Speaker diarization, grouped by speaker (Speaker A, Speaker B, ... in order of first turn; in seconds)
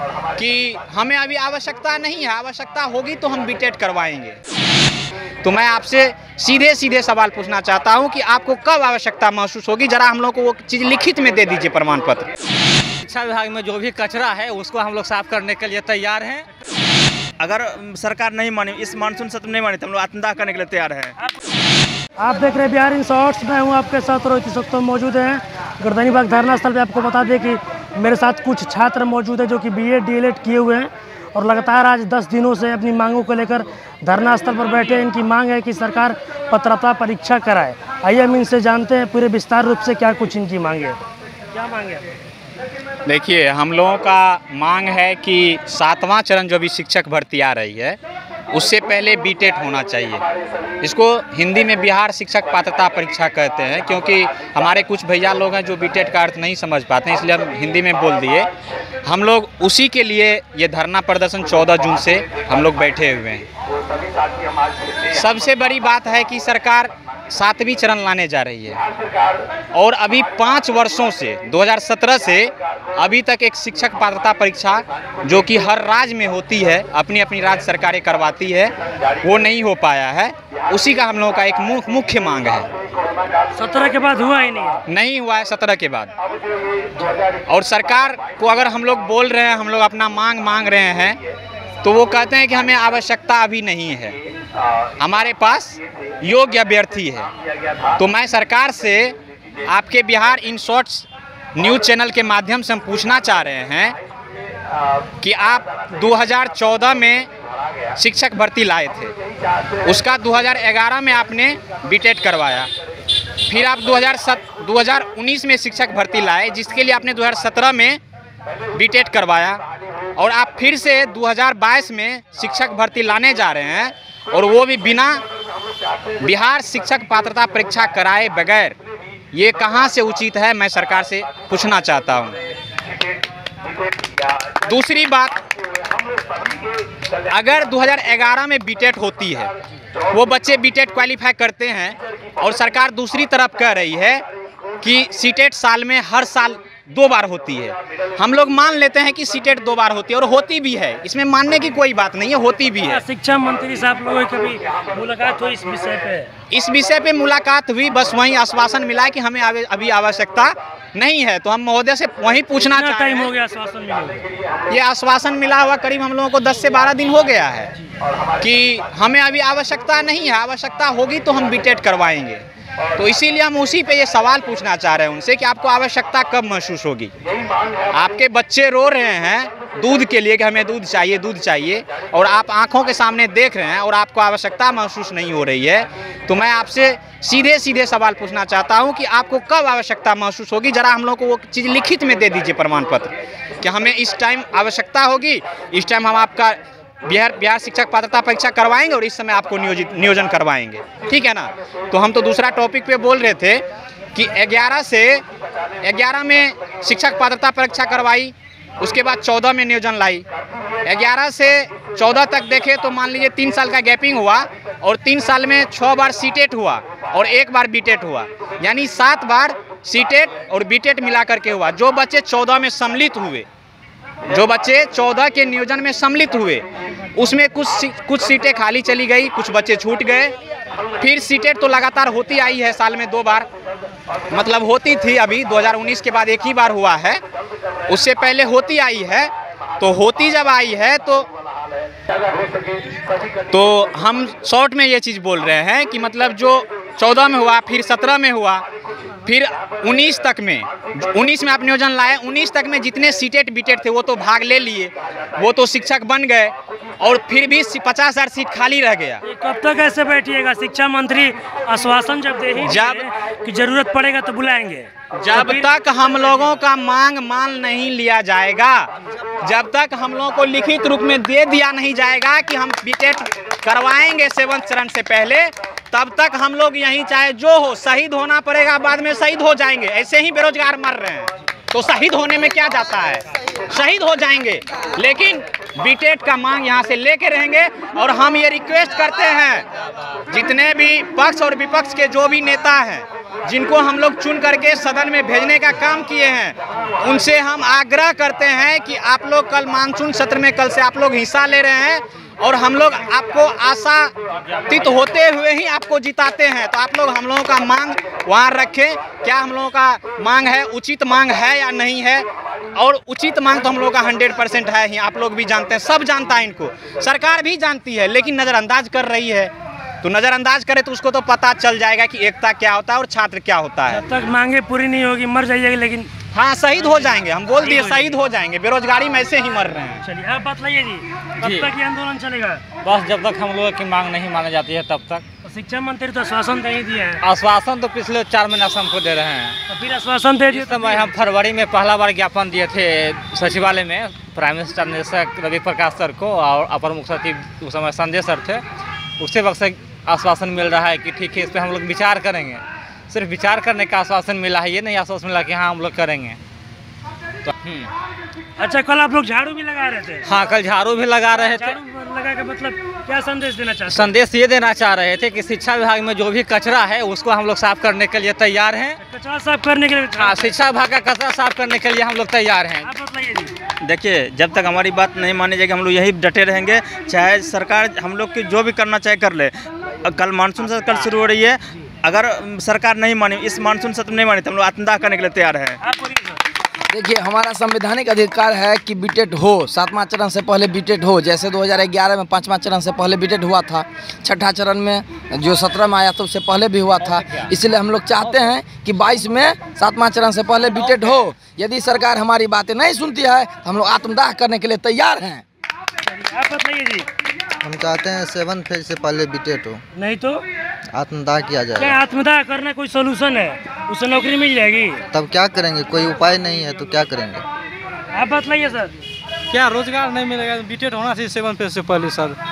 Speaker A: 0.4-4.4, 5.4-12.3, 43.0-48.0, 48.5-50.2, 50.8-58.5, 59.0-63.5, 65.1-68.8, 69.7-82.7, 84.9-86.1, 87.5-91.2, 91.8-94.2, 95.0-97.3, 98.0-104.0, 105.2-107.3, 108.0-109.1, 109.8-112.7, 113.5-118.0, 118.8-119.6, 120.2-125.2, 126.2-128.8, 129.3-132.4, 134.6-135.4, 137.3-139.5, 140.1-144.2, 144.8-153.0, 156.5-163.3, 164.7-167.7, 168.4-172.4, 173.0-177.1, 177.9-205.2, 205.8-210.2, 210.8-223.5, 224.3-226.7, 227.2-230.3, 231.0-233.5, 234.3-237.2, 237.9-241.3, 243.5-248.6, 249.3-259.2, 262.6-263.0, 265.1-268.9, 269.4-289.7, 290.3-304.1, 304.7-324.0, 326.3-330.0
Speaker B: 13.0-16.5, 331.4-331.7, 332.8-335.2, 337.2-339.6, 340.5-348.6, 349.2-356.4, 357.4-357.9, 360.2-361.8, 363.9-369.0, 370.2-372.9, 397.0-397.5, 398.2-398.5, 400.8-401.2
Speaker C: 17.4-21.1, 373.8-379.5, 380.0-385.8
Speaker D: 22.2-41.0, 41.5-42.1, 83.6-84.8, 152.8-156.3, 162.6-164.3, 259.2-266.4, 323.9-326.1, 327.6-328.2, 330.0-332.6, 335.4-337.2, 339.7-341.1, 358.6-360.3, 361.5-364.1, 369.0-370.6, 372.8-373.5, 385.8-386.4, 406.1-407.1, 409.9-410.4, 411.8-415.0, 418.1-418.9
Speaker E: 386.9-405.4
Speaker F: 407.6-409.8, 410.9-412.0, 415.1-417.4
Speaker G: 419.5-422.4